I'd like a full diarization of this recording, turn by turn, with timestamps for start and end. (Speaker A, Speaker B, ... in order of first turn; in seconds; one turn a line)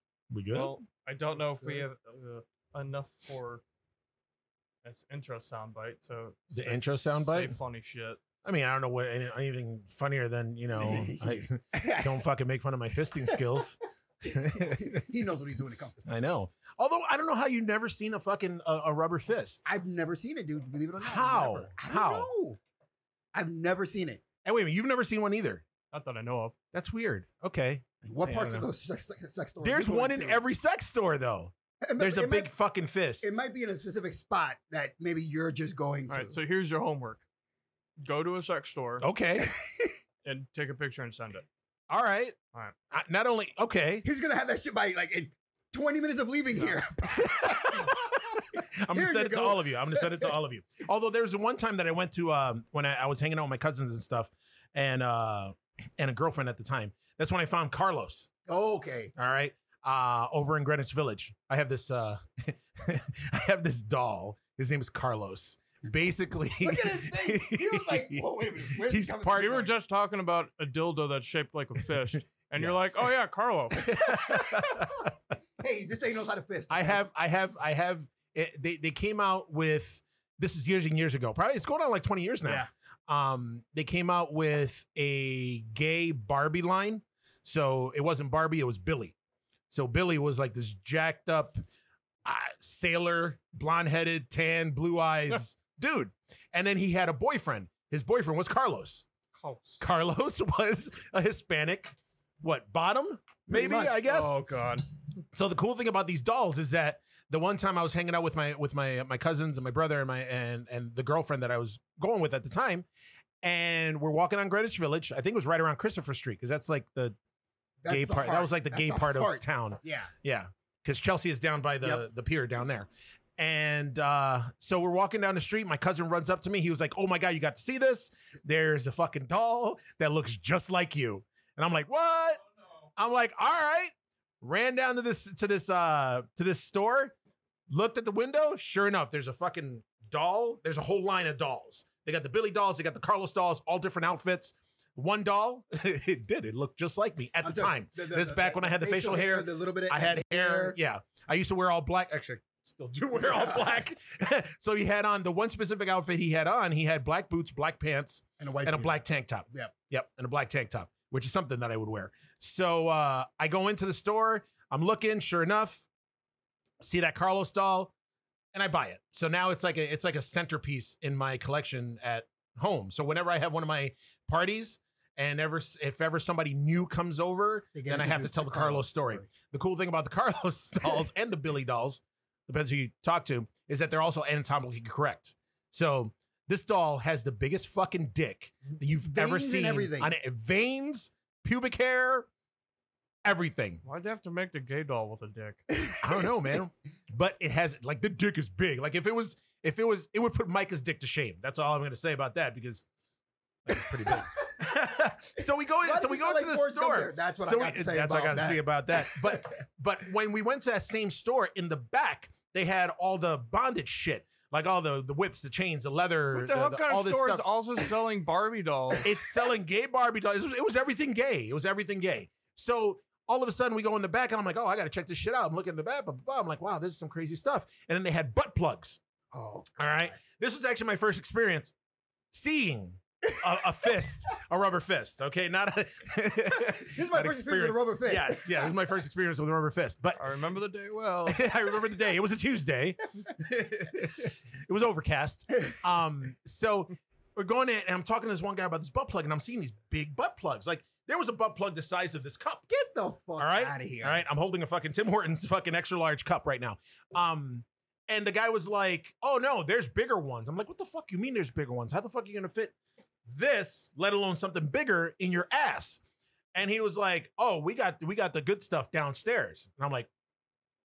Speaker A: 0.3-0.8
Speaker B: 0.5-3.6
Speaker B: 4.8-8.2
Speaker A: 6.5-7.6
Speaker A: 8.4-15.1
Speaker C: 10.8-12.2
Speaker C: 13.2-13.7
Speaker C: 14.2-16.1
Speaker A: 16.1-19.6
Speaker C: 19.6-22.6
Speaker A: 21.0-22.3
Speaker C: 23.3-24.2
Speaker A: 24.4-25.6
Speaker B: 25.9-26.5
Speaker A: 26.7-28.7
Speaker C: 28.1-30.4
Speaker A: 29.6-33.4
Speaker C: 31.8-32.5
Speaker C: 33.2-36.4
Speaker B: 36.1-37.2
Speaker B: 38.0-39.1
Speaker A: 39.0-39.5
Speaker B: 40.2-41.5
Speaker A: 41.9-42.4
Speaker A: 42.9-44.0
Speaker C: 44.0-50.3
Speaker A: 47.2-58.3
Speaker C: 58.5-59.1
Speaker A: 59.2-69.6
Speaker C: 66.6-69.7
Speaker B: 69.3-73.9
Speaker A: 72.6-73.0
Speaker A: 73.8-75.1
Speaker C: 74.0-75.0
Speaker C: 75.6-77.0
Speaker A: 76.7-89.2
Speaker A: 89.7-91.6
Speaker A: 92.2-99.1
Speaker B: 99.3-99.8
Speaker A: 99.8-104.4
Speaker C: 103.5-104.0
Speaker B: 104.0-104.9
Speaker A: 105.3-112.9
Speaker A: 113.4-117.2
Speaker C: 117.8-120.1
Speaker A: 117.9-132.4
Speaker A: 133.0-137.1
Speaker A: 137.7-165.9
Speaker C: 147.4-150.8
Speaker C: 153.2-153.8
Speaker C: 158.4-159.0
Speaker A: 166.8-167.9
Speaker A: 168.5-192.3
Speaker C: 177.8-179.3
Speaker C: 189.0-190.1
Speaker A: 193.2-193.8
Speaker B: 193.8-195.7
Speaker C: 195.9-196.3
Speaker A: 196.0-202.9
Speaker A: 203.7-217.4
Speaker C: 205.8-209.5
Speaker B: 216.3-219.1
Speaker A: 219.0-229.0
Speaker C: 229.3-230.2
Speaker A: 229.8-231.7
Speaker A: 232.3-240.2
Speaker C: 236.8-238.7
Speaker B: 240.2-241.5
Speaker A: 241.3-252.7
Speaker C: 252.7-254.2
Speaker A: 253.4-262.7
Speaker A: 263.3-266.0
Speaker A: 266.5-270.1